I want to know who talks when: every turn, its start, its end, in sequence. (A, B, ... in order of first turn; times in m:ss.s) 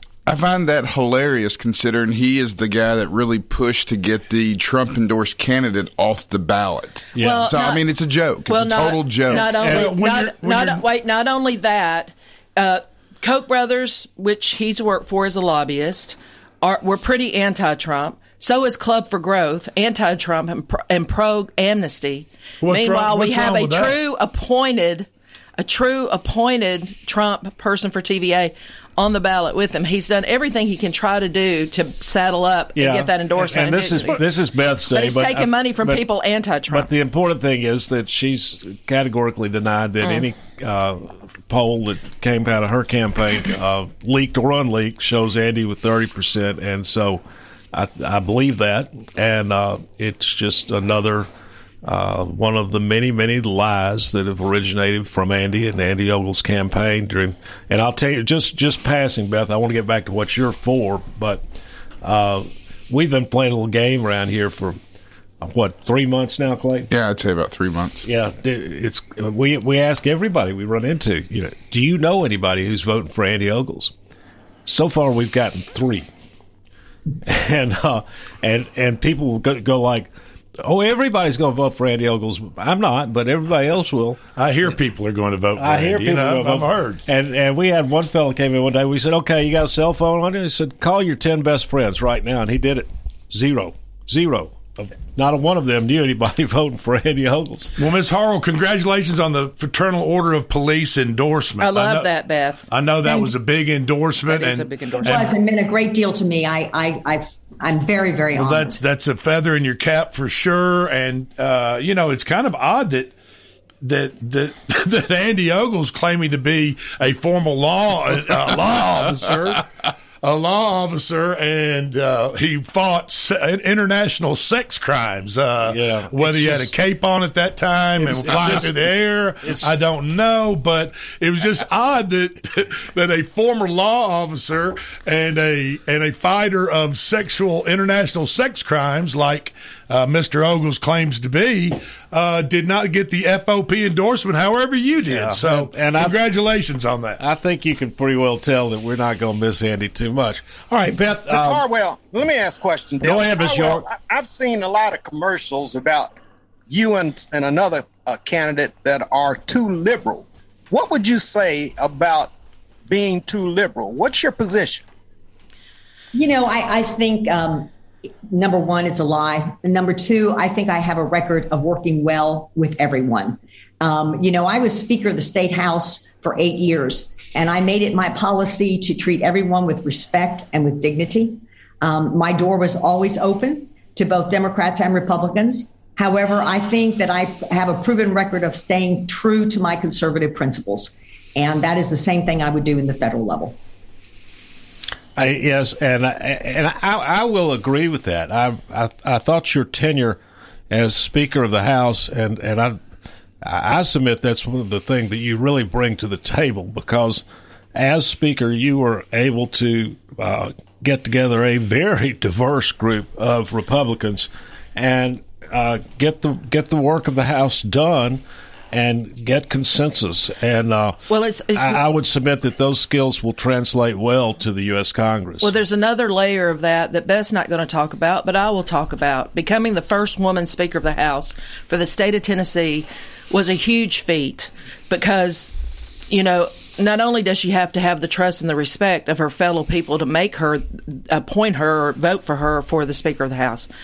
0:00.3-0:09.8 A
0:07.2-0:07.4 B
0:07.2-0:07.8 C
0:08.5-0:25.1 C
0:09.6-0:10.1 B
0:09.6-0:10.8 D
0:22.6-0:24.0 D
0:25.6-0:34.2 C
0:32.8-0:36.0 B
0:34.9-0:36.9 C
0:36.7-0:47.2 B
0:47.7-0:51.3 B
0:51.8-1:01.4 B
1:02.0-1:04.8 B
1:05.4-1:06.9 B
1:06.9-1:08.0 A
1:08.0-1:13.9 B
1:14.6-1:16.1 B
1:17.2-1:20.1 B
1:20.6-1:24.2 B
1:24.4-1:27.0 D
1:25.6-1:37.7 B
1:37.8-1:42.1 D
1:41.6-1:42.6 C
1:42.7-1:45.3 D
1:44.2-1:45.3 C
1:45.0-1:48.8 E
1:48.3-1:53.1 D
1:53.8-1:59.6 D
2:00.2-2:27.2 D
2:05.6-2:06.7 B
2:08.0-2:09.7 B
2:25.0-2:26.2 B
2:27.2-2:31.7 B
2:31.3-2:36.1 F
2:33.0-2:33.9 B
2:36.7-2:42.3 F
2:42.9-2:44.8 F
2:46.1-2:47.7 E
2:48.3-3:13.6 E
3:15.2-3:20.2 B
3:20.7-3:22.8 B
3:23.4-3:27.2 B
3:27.7-3:41.0 B
3:41.1-3:41.8 C
3:41.5-3:45.5 B
3:45.4-3:55.5 C
3:56.1-4:03.7 C